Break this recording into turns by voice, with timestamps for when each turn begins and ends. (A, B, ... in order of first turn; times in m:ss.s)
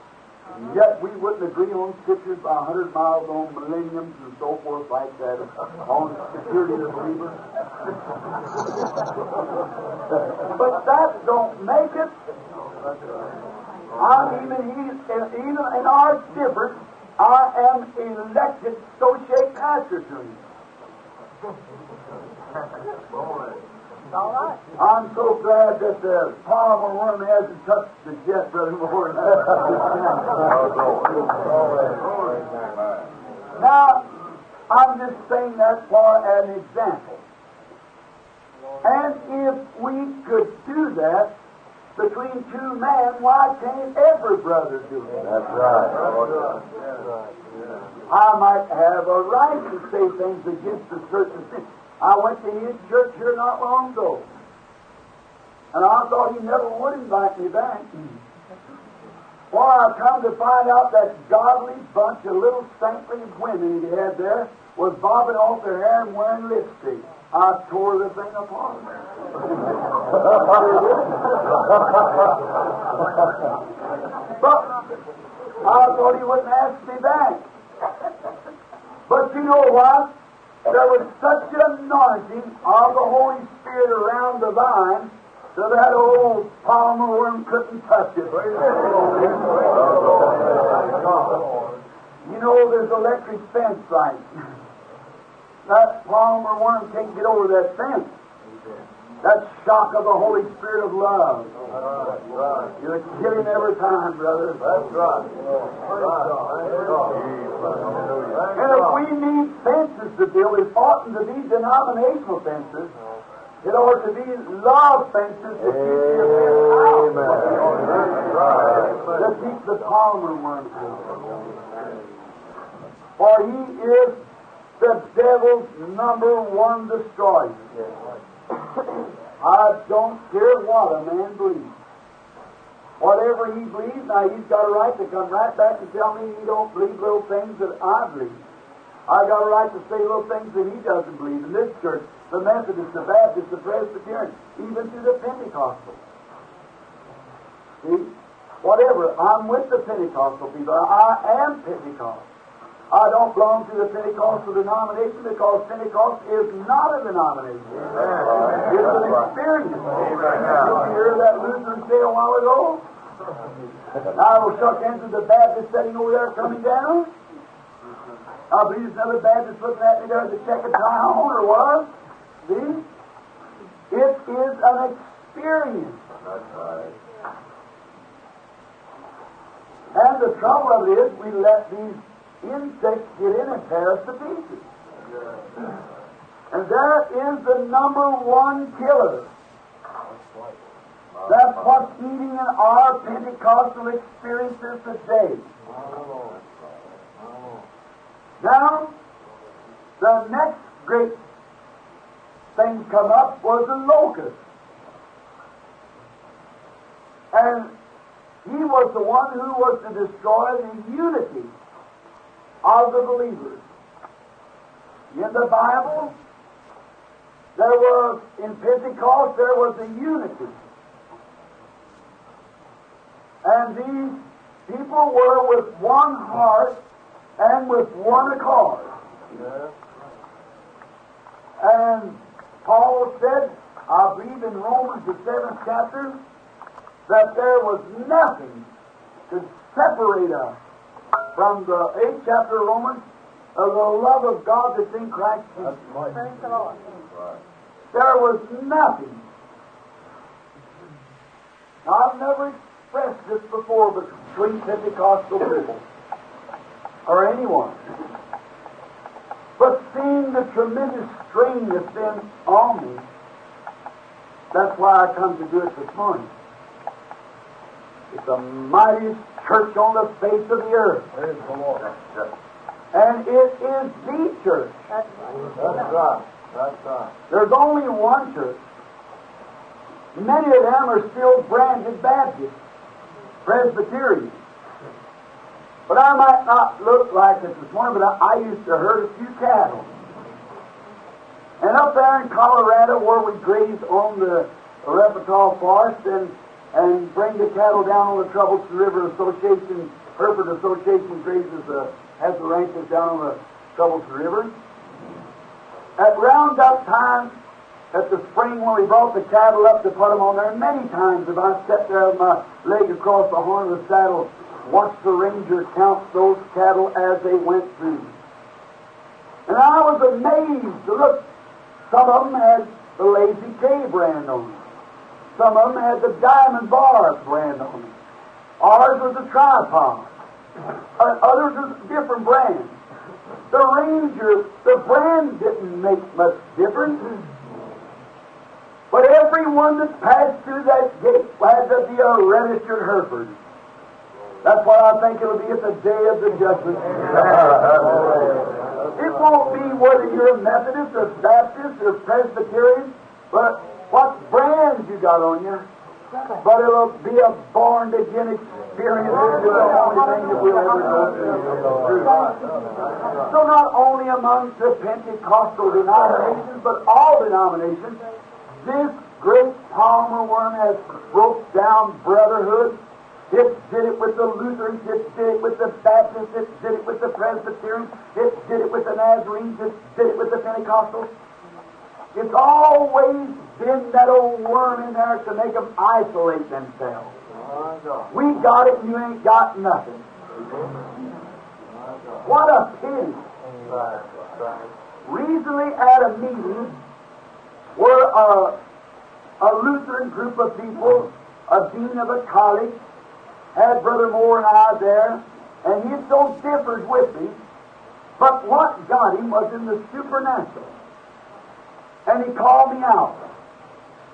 0:00.6-0:07.4 A
0:10.5-0:12.1 A
0:14.0-0:20.4 A
0:24.1-0:24.6 B
0:24.8-0:30.5 A
0:31.8-0:32.6 C
0:33.6-0:34.1 A
0:34.7-0:37.2 A
0:38.8-0:41.3 A
0:42.0-0:45.4 A
0:45.5-0:47.9 C
0:48.1-0:54.3 A
0:55.7-0:58.2 A
0:59.5-1:08.9 A
1:10.3-1:11.3 A
1:14.4-1:14.7 A
1:15.6-1:17.5 A
1:19.1-1:20.1 A
1:20.6-1:29.4 A
1:32.2-1:34.4 A
1:35.7-1:38.1 A
1:39.2-1:41.5 A
1:42.0-1:42.7 C
1:42.8-1:44.7 A
1:44.6-1:48.7 C
1:48.5-1:52.9 A
1:53.6-1:57.7 A
1:59.1-2:01.2 A
2:03.2-2:04.2 A
2:04.8-2:07.6 A
2:09.4-2:11.8 A
2:13.0-2:18.4 A
2:19.1-2:26.0 A
2:27.8-2:32.3 A
2:32.9-2:37.9 A
2:38.6-2:42.8 A
2:44.1-2:47.1 A
2:48.5-2:51.9 A
2:52.4-2:52.9 A
2:53.9-2:56.0 A
2:59.9-3:04.7 A
3:06.5-3:09.3 A
3:11.2-3:15.5 A
3:15.7-3:16.4 C
3:17.2-3:17.6 C
3:18.4-3:18.9 A
3:20.0-3:21.2 A
3:22.6-3:24.4 A
3:27.3-3:27.7 A
3:28.4-3:31.5 A
3:32.6-3:33.6 A
3:35.1-3:36.2 A
3:37.6-3:40.6 A
3:43.4-3:46.8 A
3:47.4-3:48.9 A
3:49.3-3:49.7 C
3:51.6-3:56.2 A
3:57.1-3:58.7 A
3:59.3-4:00.6 A
4:01.3-4:03.0 A
4:03.6-4:05.8 A
4:06.1-4:06.9 B
4:07.9-4:09.2 A
4:11.8-4:15.8 A
4:17.1-4:17.8 A
4:19.6-4:23.1 A
4:24.5-4:26.3 A
4:28.1-4:31.1 A
4:32.9-4:34.8 A
4:34.9-4:35.6 B
4:35.5-4:37.1 C
4:37.3-4:38.6 A
4:40.1-4:42.6 A
4:43.4-4:44.4 A
4:45.9-4:49.9 A
4:51.6-5:04.5 A
5:06.0-5:07.4 A
5:07.9-5:18.2 A
5:19.5-5:21.3 A
5:21.9-5:24.6 A
5:25.3-5:28.0 A
5:28.6-5:30.1 A
5:31.0-5:32.8 A
5:33.5-5:37.1 A
5:38.9-5:43.4 A
5:44.4-5:47.8 A
5:49.0-5:55.7 A
5:56.3-6:02.3 A
6:03.2-6:08.0 A
6:08.6-6:12.8 A
6:13.3-6:21.1 A
6:22.1-6:27.1 A
6:27.3-6:28.1 C
6:28.1-6:30.0 A
6:31.7-6:32.3 C
6:32.2-6:33.2 A
6:33.5-6:34.6 C
6:35.0-6:36.8 A
6:37.8-6:38.6 A
6:39.4-6:42.8 A
6:43.5-6:47.4 A
6:48.2-6:50.8 A
6:52.1-6:53.3 A